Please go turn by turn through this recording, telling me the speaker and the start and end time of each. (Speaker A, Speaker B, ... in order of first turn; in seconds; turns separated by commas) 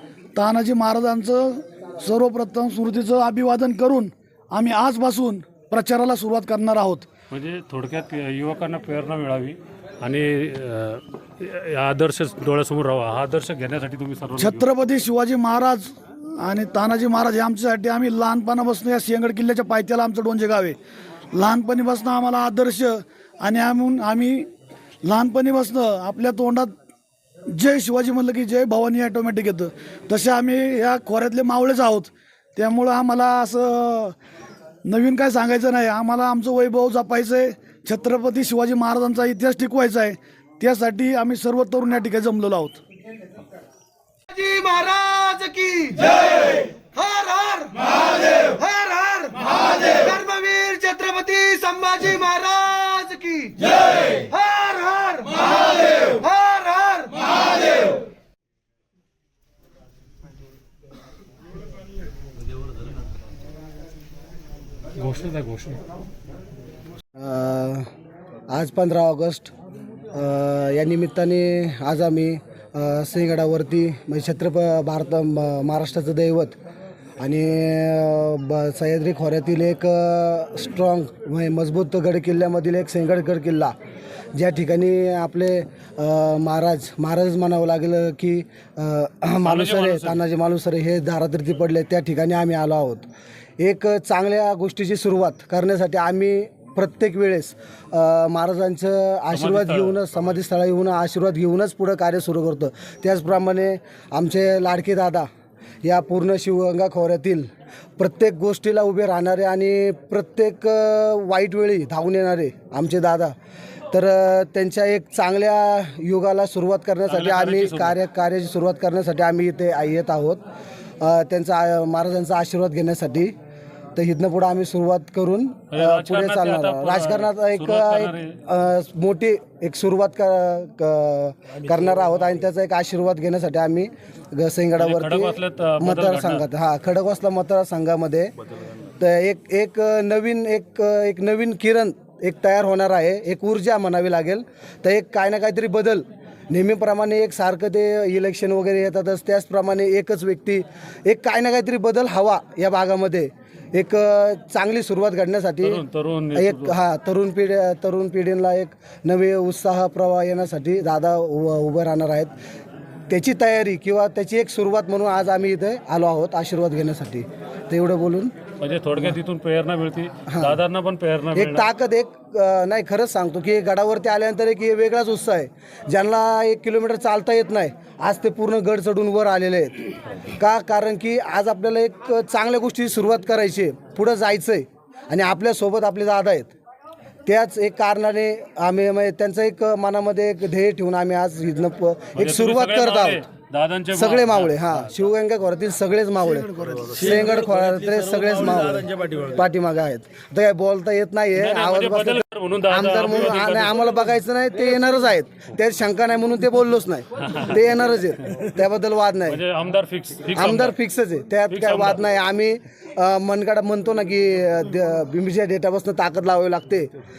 Speaker A: 0.3-7.1, Speaker B: 7.3-14.7, Speaker A: 14.4-20.8, Speaker A: 21.3-24.5, Speaker A: 25.0-26.7, Speaker A: 27.5-34.2, Speaker A: 34.9-42.8, Speaker C: 44.3-57.9, Speaker B: 65.0-65.8, Speaker D: 67.2-67.9, Speaker D: 68.5-69.5, Speaker D: 70.1-76.6, Speaker D: 77.2-83.7, Speaker D: 84.3-93.1, Speaker B: 89.4-90.2, Speaker D: 93.6-105.3, Speaker B: 99.3-100.1, Speaker D: 105.8-107.5, Speaker D: 108.0-113.3, Speaker D: 113.9-120.4, Speaker B: 117.1-118.0, Speaker D: 121.0-123.3, Speaker D: 124.0-138.3, Speaker B: 125.7-128.4, Speaker B: 134.8-136.5, Speaker D: 139.0-162.3, Speaker B: 155.6-156.8, Speaker D: 163.1-168.3, Speaker B: 168.6-171.7, Speaker D: 170.3-170.6, Speaker D: 171.3-186.5, Speaker D: 187.3-193.2, Speaker B: 192.2-194.9, Speaker D: 193.9-209.4, Speaker C: 198.9-199.2, Speaker B: 201.4-204.0, Speaker B: 207.2-207.6, Speaker B: 209.3-210.8, Speaker D: 210.3-216.9, Speaker B: 211.5-212.0